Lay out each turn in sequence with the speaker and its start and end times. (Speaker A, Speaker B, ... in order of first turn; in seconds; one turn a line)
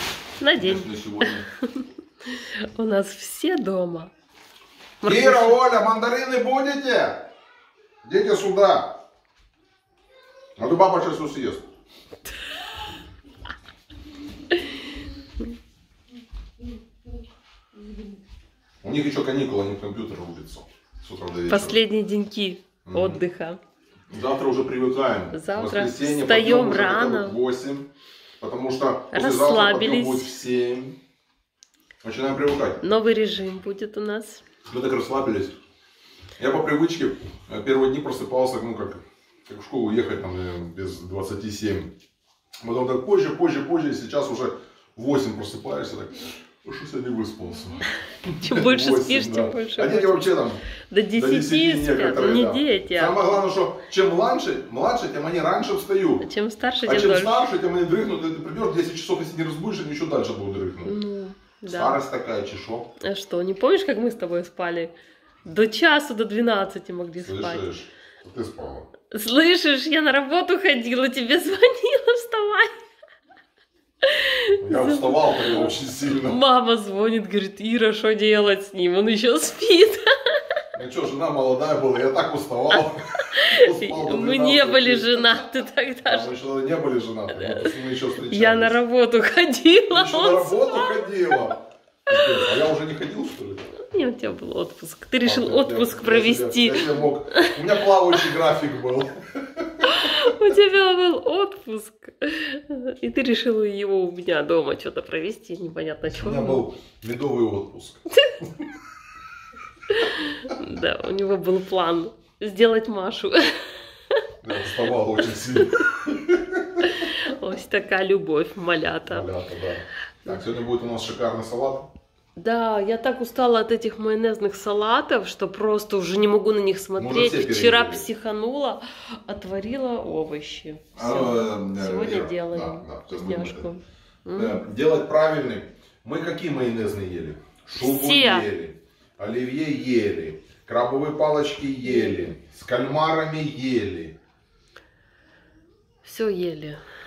Speaker A: 0.4-4.1
Speaker B: 0.5-1.5
Speaker A: 5.0-5.6
Speaker B: 5.0-7.3
Speaker B: 8.0-9.0
Speaker B: 10.6-11.7
Speaker B: 18.8-21.8
Speaker A: 21.5-23.6
Speaker B: 22.8-23.2
Speaker B: 24.1-31.0
Speaker A: 25.3-27.4
Speaker A: 29.1-30.3
Speaker B: 32.0-32.8
Speaker A: 32.8-34.4
Speaker B: 34.7-35.5
Speaker B: 36.4-41.9
Speaker B: 42.6-50.6
Speaker A: 48.4-50.4
Speaker A: 50.9-53.2
Speaker B: 51.1-56.2
Speaker A: 56.2-57.5
Speaker B: 56.8-60.9
Speaker A: 60.8-62.0
Speaker B: 61.7-62.9
Speaker A: 63.0-64.9
Speaker A: 65.4-67.7
Speaker B: 67.2-68.9
Speaker A: 69.1-72.8
Speaker A: 74.0-80.1
Speaker B: 74.6-76.4
Speaker B: 80.7-85.4
Speaker A: 82.7-86.3
Speaker B: 86.0-88.8
Speaker A: 87.3-91.5
Speaker B: 89.9-93.7
Speaker A: 92.1-92.5
Speaker A: 93.7-97.6
Speaker B: 95.2-100.3
Speaker A: 99.8-106.6
Speaker B: 106.1-108.0
Speaker A: 109.9-114.2
Speaker B: 114.4-116.9
Speaker A: 116.8-119.3
Speaker B: 119.1-121.9
Speaker A: 122.3-134.6
Speaker B: 127.0-128.1
Speaker B: 130.9-133.7
Speaker B: 134.3-144.2
Speaker A: 137.7-138.5
Speaker A: 141.8-142.4
Speaker A: 146.0-146.8